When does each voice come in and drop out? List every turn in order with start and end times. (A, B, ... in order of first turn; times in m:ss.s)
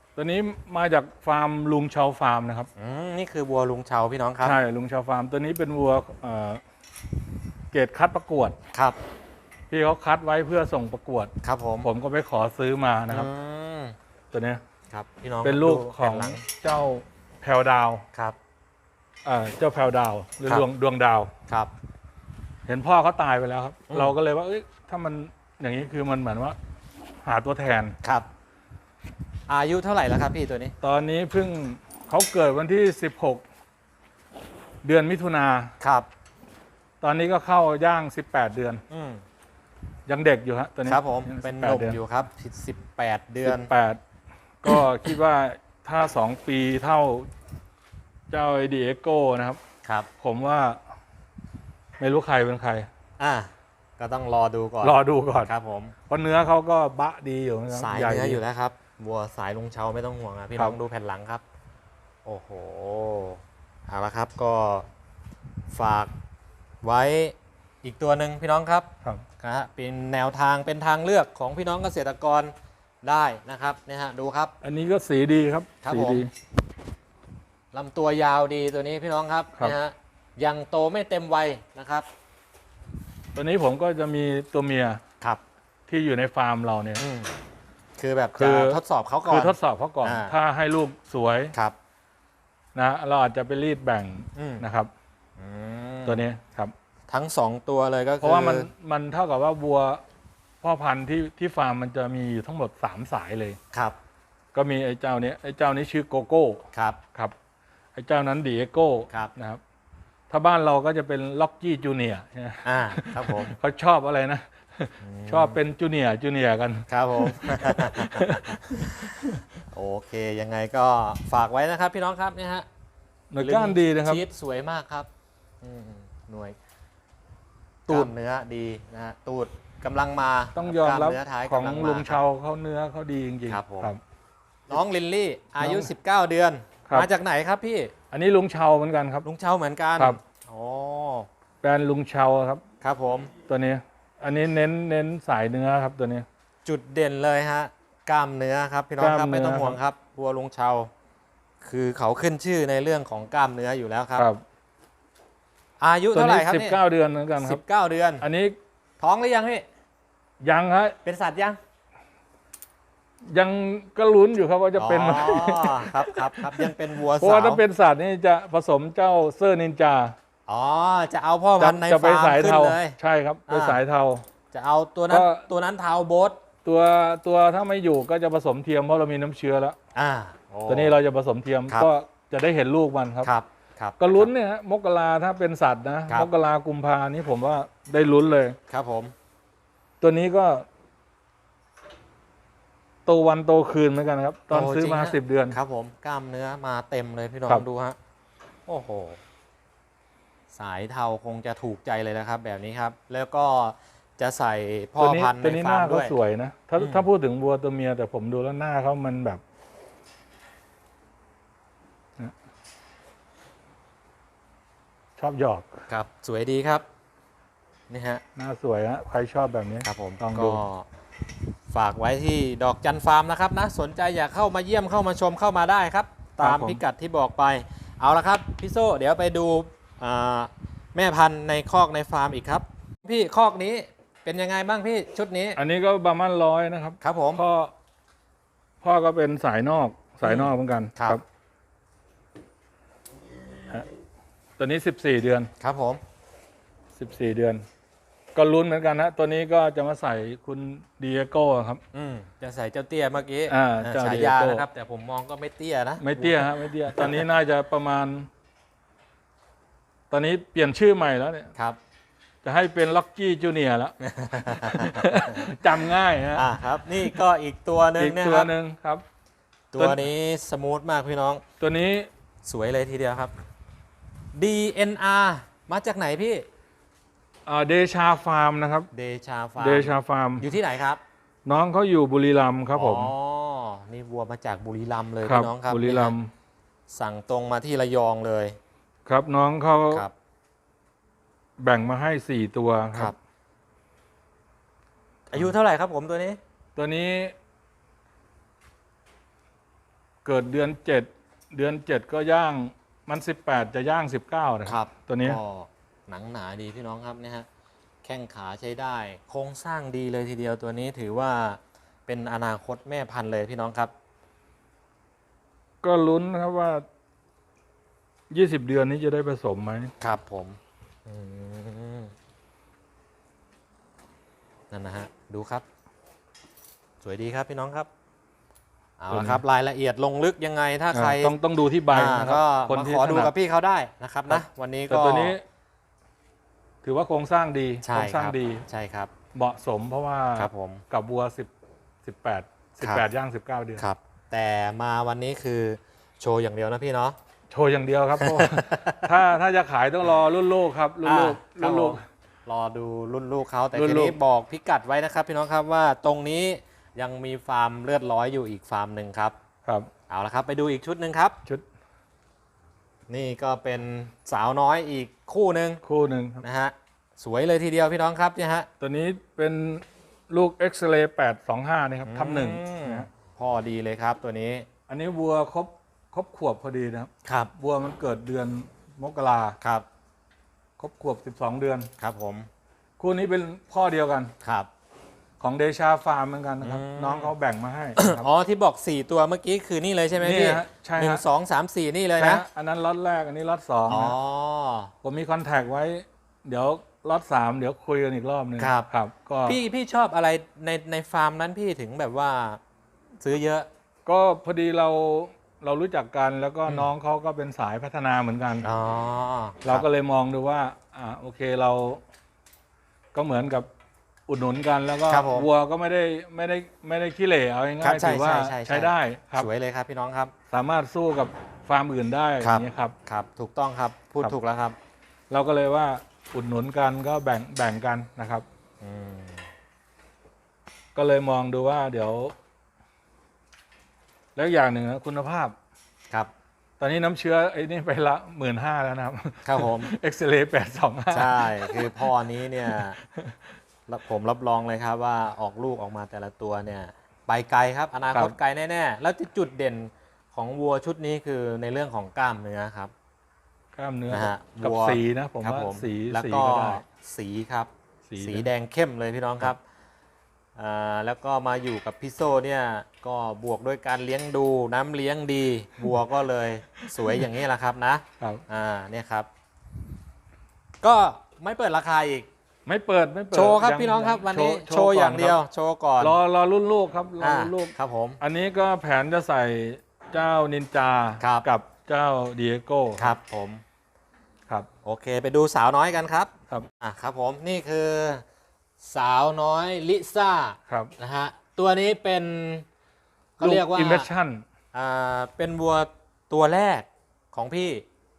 0:00.2-0:02.7 A
0:02.8-0:04.6 B
0:04.4-0:06.6 A
0:07.7-0:08.6 A
0:08.7-0:09.0 B
0:09.7-0:11.3 A
0:11.4-0:11.9 B
0:11.8-0:13.3 A
0:13.1-0:13.9 B
0:14.3-0:14.6 A
0:14.9-0:16.4 B
0:15.4-0:18.0 A
0:19.2-0:21.3 A
0:22.7-0:26.6 A
0:23.9-0:24.1 B
0:27.2-0:28.0 A
0:28.0-0:28.3 B
0:29.5-0:30.8 B
0:30.8-0:33.4 A
0:34.8-0:35.7 A
0:35.8-0:36.1 B
0:37.0-0:38.8 A
0:38.9-0:39.2 B
0:40.1-0:42.0 A
0:40.8-0:43.7 B
0:43.4-0:44.0 A
0:44.6-0:47.3 A
0:48.3-0:49.6 A
0:49.8-0:50.1 B
0:50.2-0:50.8 A
0:52.0-0:52.9 A
0:53.2-0:55.9 B
0:54.8-0:55.5 A
0:56.1-0:58.4 A
0:57.7-1:01.4 B
1:02.2-1:04.9 B
1:05.7-1:06.1 B
1:06.8-1:08.9 B
1:09.4-1:14.5 B
1:14.6-1:16.3 A
1:15.8-1:16.2 B
1:17.7-1:22.1 B
1:23.3-1:25.0 A
1:25.9-1:27.0 A
1:27.0-1:27.3 B
1:28.0-1:30.4 B
1:28.4-1:31.5 A
1:32.7-1:34.9 A
1:34.3-1:34.6 B
1:35.4-1:36.2 B
1:36.0-1:36.7 A
1:37.1-1:38.7 B
1:38.2-1:40.0 A
1:40.6-1:43.6 A
1:43.7-1:44.0 B
1:44.5-1:46.6 A
1:46.7-1:47.0 B
1:48.0-1:49.6 A
1:50.3-1:59.3 A
1:52.6-1:53.6 B
1:55.0-1:55.6 B
1:56.9-2:02.6 B
2:03.3-2:04.2 A
2:03.4-2:05.1 B
2:05.6-2:06.6 B
2:07.8-2:12.2 B
2:10.6-2:14.0 A
2:13.5-2:13.9 B
2:14.7-2:17.9 B
2:15.6-2:15.9 A
2:18.1-2:19.2 A
2:19.2-2:21.3 B
2:21.6-2:22.6 A
2:22.8-2:23.3 B
2:23.5-2:26.2 A
2:26.6-2:30.9 B
2:29.0-2:29.8 A
2:31.6-2:34.3 B
2:34.2-2:34.4 A
2:35.8-2:36.8 B
2:36.1-2:37.6 A
2:37.4-2:38.2 B
2:38.2-2:38.6 A
2:39.0-2:39.6 B
2:40.4-2:41.0 A
2:41.0-2:41.6 B
2:43.3-2:50.1 A
2:44.8-2:47.6 B
2:50.5-2:53.0 B
2:51.6-2:54.2 A
2:53.5-2:53.8 B
2:54.5-2:56.4 B
2:55.1-2:55.4 A
2:56.6-2:59.8 A
2:59.9-3:01.0 B
3:00.7-3:03.3 A
3:03.2-3:04.3 B
3:04.0-3:08.6 A
3:08.7-3:09.1 B
3:10.0-3:10.6 A
3:13.0-3:15.6 A
3:14.5-3:18.0 B
3:18.7-3:19.2 B
3:20.5-3:26.1 B
3:25.0-3:29.4 A
3:26.8-3:27.0 B
3:35.2-3:35.8 A
3:35.9-3:36.8 B
3:37.9-3:38.2 B
3:38.4-3:40.6 A
3:39.8-3:40.8 B
3:41.7-3:55.6 B
3:46.4-3:46.8 A
3:55.6-3:57.7 A
3:57.0-3:57.4 B
3:58.8-4:01.2 A
4:00.2-4:01.2 B
4:04.6-4:05.5 A
4:05.6-4:06.0 B
4:07.0-4:07.6 A
4:08.3-4:11.8 A
4:11.9-4:17.2 B
4:13.5-4:14.6 A
4:16.0-4:18.3 A
4:20.1-4:21.5 A
4:22.4-4:24.0 A
4:24.0-4:25.6 B
4:24.7-4:26.5 A
4:26.3-4:28.5 B
4:28.0-4:29.0 A
4:29.7-4:31.4 B
4:29.8-4:30.0 A
4:31.6-4:32.1 A
4:32.4-4:33.3 B
4:34.3-4:36.4 B
4:37.4-4:38.9 A
4:38.9-4:41.0 B
4:39.6-4:40.4 A
4:41.4-4:43.1 A
4:42.7-4:46.1 B
4:45.2-4:46.3 A
4:46.9-4:48.6 B
4:49.0-4:50.0 A
4:51.6-4:53.1 A
4:55.3-4:56.4 B
4:56.8-4:57.3 A
5:00.2-5:05.4 A
5:04.6-5:07.5 B
5:08.0-5:13.9 B
5:15.8-5:16.8 A
5:18.3-5:19.9 A
5:20.0-5:22.1 B
5:24.7-5:25.6 B
5:27.0-5:27.9 B
5:29.0-5:31.3 B
5:29.1-5:29.4 A
5:30.9-5:33.3 A
5:31.9-5:35.4 B
5:34.3-5:35.4 A
5:36.8-5:38.6 A
5:37.8-5:39.1 B
5:39.3-5:41.5 A
5:40.4-5:40.8 B
5:42.0-5:43.8 A
5:43.8-5:47.2 B
5:47.5-5:52.0 A
5:48.2-5:49.2 B
5:51.0-5:59.3 B
5:53.7-5:54.2 A
6:00.1-6:01.4 B
6:03.1-6:05.8 B
6:05.8-6:06.4 A
6:06.4-6:08.7 B
6:08.8-6:13.1 A
6:12.0-6:14.6 B
6:14.9-6:19.6 A
6:17.2-6:17.5 B
6:19.6-6:19.8 B
6:20.8-6:21.9 A
6:22.0-6:22.5 B
6:23.0-6:24.3 A
6:24.4-6:24.7 B
6:25.4-6:28.2 A
6:26.6-6:27.3 B
6:28.0-6:32.4 B
6:30.2-6:31.2 A
6:32.2-6:34.1 A
6:33.9-6:34.9 B
6:35.0-6:39.6 A
6:38.6-6:38.9 B
6:39.4-6:42.6 B
6:43.2-6:43.7 B
6:44.0-6:48.6 A
6:48.6-6:49.9 B
6:49.6-6:52.0 A
6:53.1-6:53.7 A
6:54.3-6:59.5 A
6:55.1-6:55.5 B
6:57.8-7:00.3 B
7:00.5-7:02.9 A
7:02.4-7:04.8 B
7:05.3-7:08.4 A
7:08.8-7:09.5 B
7:10.9-7:12.3 A
7:14.4-7:15.5 A
7:16.8-7:22.1 A
7:19.4-7:19.9 B
7:21.1-7:23.0 B
7:22.7-7:23.5 A
7:23.9-7:32.9 B
7:33.7-7:36.8 A
7:34.1-7:39.6 B
7:38.1-7:38.5 A
7:40.6-7:49.3 B
7:46.8-7:47.2 A
7:50.8-7:52.3 B
7:52.6-7:55.4 A
7:53.3-7:56.2 B
7:56.0-8:03.2 A
7:57.2-7:58.2 B
8:01.2-8:01.5 B
8:03.0-8:03.6 B
8:04.8-8:08.2 B
8:08.8-8:12.6 B
8:13.4-8:14.1 B
8:13.4-8:14.4 A
8:14.7-8:17.8 B